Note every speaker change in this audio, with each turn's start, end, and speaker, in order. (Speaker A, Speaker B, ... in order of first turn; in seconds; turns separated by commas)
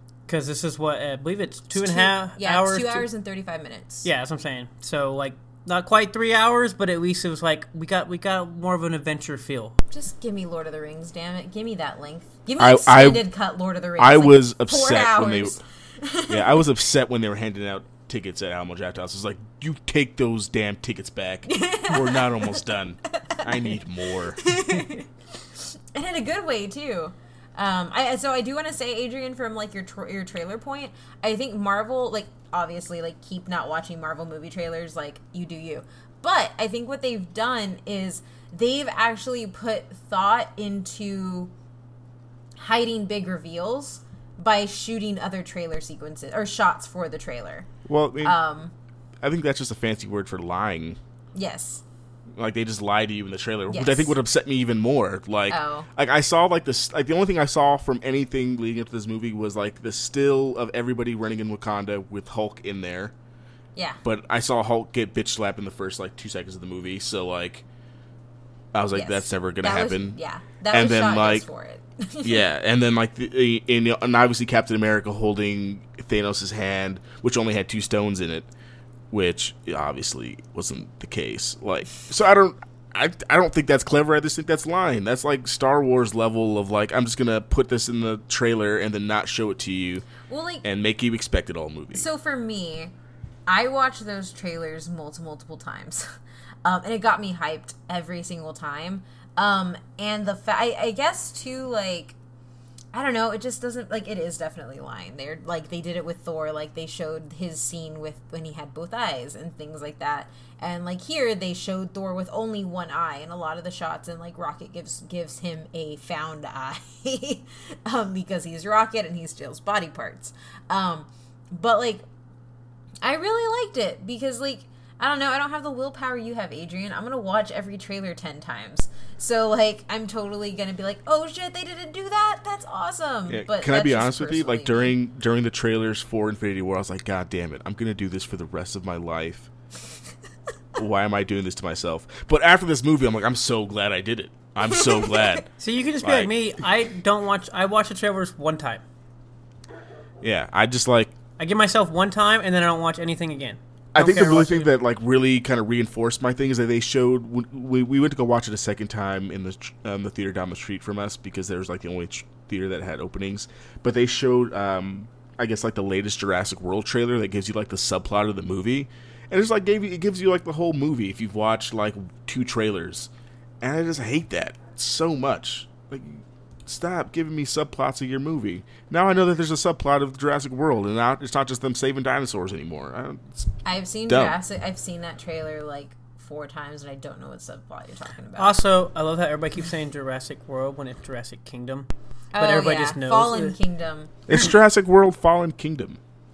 Speaker A: 0.3-3.1, Speaker B: 1.7-4.1, Speaker A: 4.0-9.8, Speaker B: 9.9-16.6, Speaker C: 12.6-13.2, Speaker C: 14.0-15.6, Speaker C: 16.3-24.8, Speaker B: 21.5-23.8, Speaker B: 24.4-25.1, Speaker B: 25.8-41.5, Speaker B: 42.6-47.7, Speaker C: 47.9-48.4, Speaker B: 48.2-48.7, Speaker C: 49.2-51.0, Speaker B: 51.3-51.8, Speaker C: 52.4-63.1, Speaker B: 53.7-54.2, Speaker B: 55.5-55.9, Speaker C: 64.0-67.6, Speaker C: 68.7-70.2, Speaker B: 68.9-72.4, Speaker C: 70.7-71.5, Speaker C: 72.2-78.5, Speaker C: 79.1-90.1, Speaker B: 90.3-90.6, Speaker C: 90.6-92.1, Speaker B: 91.9-92.9, Speaker B: 93.5-96.1, Speaker B: 96.6-102.2, Speaker B: 102.9-122.0, Speaker B: 123.0-134.9, Speaker C: 133.3-139.5, Speaker C: 140.8-146.3, Speaker B: 144.7-145.3, Speaker A: 145.6-148.8, Speaker C: 150.2-151.2, Speaker A: 151.4-154.7, Speaker C: 153.9-183.6, Speaker B: 183.6-188.6, Speaker C: 184.1-184.3, Speaker A: 188.4-193.6, Speaker B: 192.3-194.1, Speaker C: 194.3-196.0